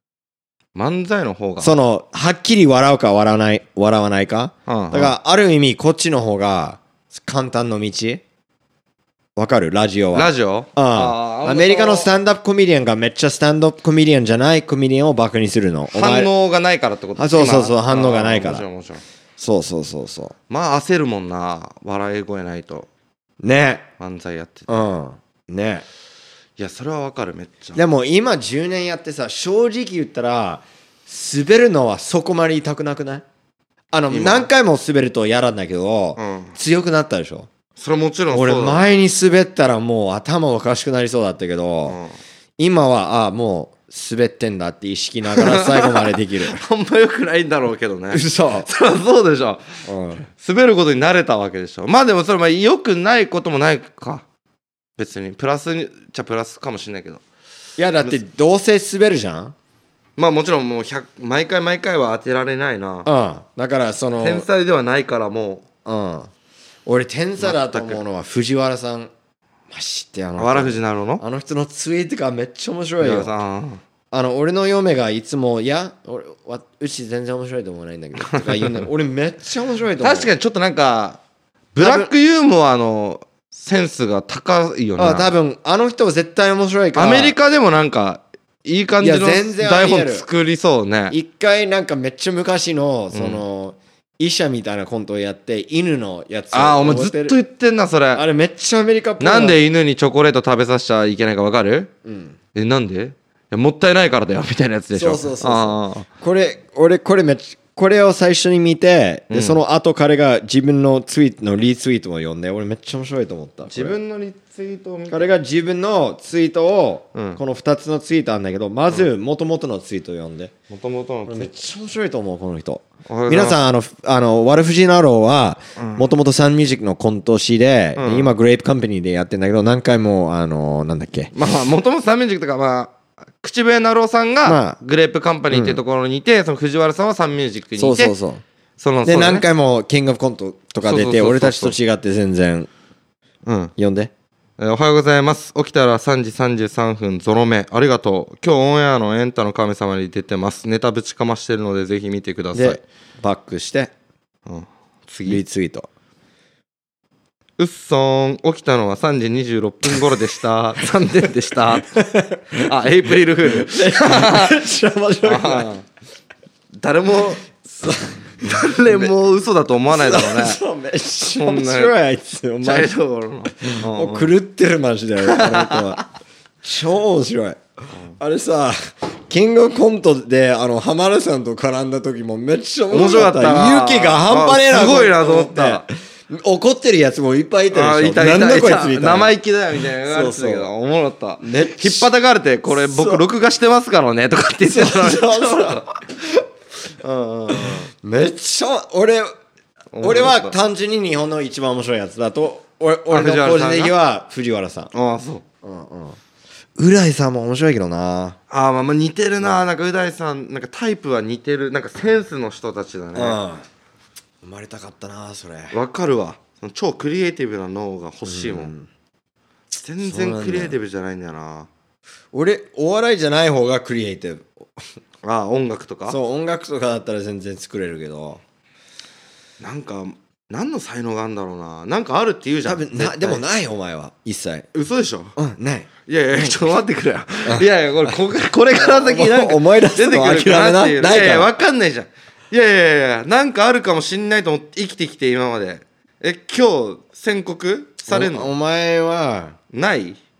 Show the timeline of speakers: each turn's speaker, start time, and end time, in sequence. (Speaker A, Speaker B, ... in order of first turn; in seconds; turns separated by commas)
Speaker A: 0.7-1.8, Speaker B: 1.6-8.2, Speaker A: 4.7-5.2, Speaker B: 9.3-16.3, Speaker A: 10.1-12.1, Speaker A: 15.9-19.0, Speaker B: 17.2-18.6, Speaker B: 19.4-20.3, Speaker A: 20.5-22.9, Speaker B: 23.4-23.9, Speaker A: 24.0-24.7, Speaker B: 24.7-25.8, Speaker A: 26.6-27.8, Speaker B: 27.7-33.2, Speaker B: 33.9-37.5, Speaker A: 34.1-34.5, Speaker A: 36.2-36.5, Speaker A: 37.8-38.9, Speaker B: 38.3-42.0, Speaker A: 41.9-42.1, Speaker B: 42.6-46.6, Speaker A: 45.3-54.2, Speaker B: 48.1-48.7, Speaker B: 49.9-50.2, Speaker A: 55.0-57.2, Speaker B: 57.8-59.5, Speaker A: 60.2-63.1, Speaker B: 63.0-64.5, Speaker A: 64.2-65.6, Speaker B: 65.8-66.3, Speaker B: 66.8-69.1, Speaker A: 67.4-68.0, Speaker B: 69.7-73.3, Speaker A: 70.4-71.2, Speaker A: 73.0-73.8, Speaker B: 74.1-80.3, Speaker A: 78.2-78.9, Speaker A: 80.0-81.2, Speaker A: 81.7-85.3, Speaker B: 81.8-82.1, Speaker B: 85.0-87.3, Speaker A: 86.9-91.2, Speaker B: 89.0-90.2, Speaker B: 91.1-97.4, Speaker A: 93.1-93.4, Speaker A: 96.5-98.2, Speaker B: 98.1-99.5, Speaker A: 99.2-101.9, Speaker B: 102.0-102.3, Speaker A: 102.5-106.1, Speaker B: 104.9-114.0, Speaker A: 109.3-109.6, Speaker A: 113.7-115.4, Speaker B: 115.1-120.5, Speaker A: 117.1-117.4, Speaker A: 120.7-121.5, Speaker B: 121.3-131.3, Speaker A: 123.1-123.6, Speaker A: 125.8-126.1, Speaker A: 128.0-128.3, Speaker A: 131.3-138.1, Speaker B: 134.4-134.8, Speaker B: 135.5-135.8, Speaker B: 137.8-138.4, Speaker A: 138.8-139.4, Speaker B: 139.0-142.7, Speaker A: 140.8-141.8, Speaker A: 143.4-143.7, Speaker B: 143.8-144.1, Speaker A: 144.6-152.8, Speaker B: 152.5-153.9, Speaker A: 154.5-155.4, Speaker B: 155.2-155.9, Speaker A: 157.6-162.0, Speaker B: 159.8-160.2, Speaker B: 161.8-162.7, Speaker A: 162.5-164.6, Speaker B: 163.4-165.7, Speaker A: 165.2-165.8, Speaker A: 166.8-167.5, Speaker B: 167.6-169.1, Speaker A: 168.4-170.6, Speaker B: 169.9-172.9, Speaker A: 171.3-171.9, Speaker A: 172.6-174.3, Speaker B: 173.6-176.0, Speaker A: 175.2-176.0, Speaker B: 176.6-177.6, Speaker B: 178.2-189.3, Speaker A: 182.9-185.8, Speaker A: 187.7-196.0, Speaker B: 190.0-190.7, Speaker B: 191.4-192.1, Speaker B: 192.7-193.2, Speaker B: 194.7-196.4, Speaker A: 196.9-197.9, Speaker B: 197.5-199.3, Speaker A: 199.9-200.6, Speaker B: 200.0-204.9, Speaker A: 203.1-203.9, Speaker A: 204.9-205.4, Speaker B: 205.6-206.2, Speaker B: 206.8-208.4, Speaker A: 208.5-213.4, Speaker B: 213.1-213.7, Speaker B: 214.4-215.8, Speaker A: 215.7-218.7, Speaker B: 218.2-218.9, Speaker A: 219.7-221.7, Speaker B: 220.0-220.8, Speaker B: 222.3-224.5, Speaker A: 225.2-226.2, Speaker B: 226.1-228.4, Speaker A: 229.6-233.4, Speaker B: 232.6-234.7, Speaker A: 234.7-235.3, Speaker B: 235.3-236.6, Speaker A: 236.1-248.5, Speaker B: 237.4-238.2, Speaker B: 238.8-241.5, Speaker B: 248.1-249.6, Speaker A: 249.7-250.2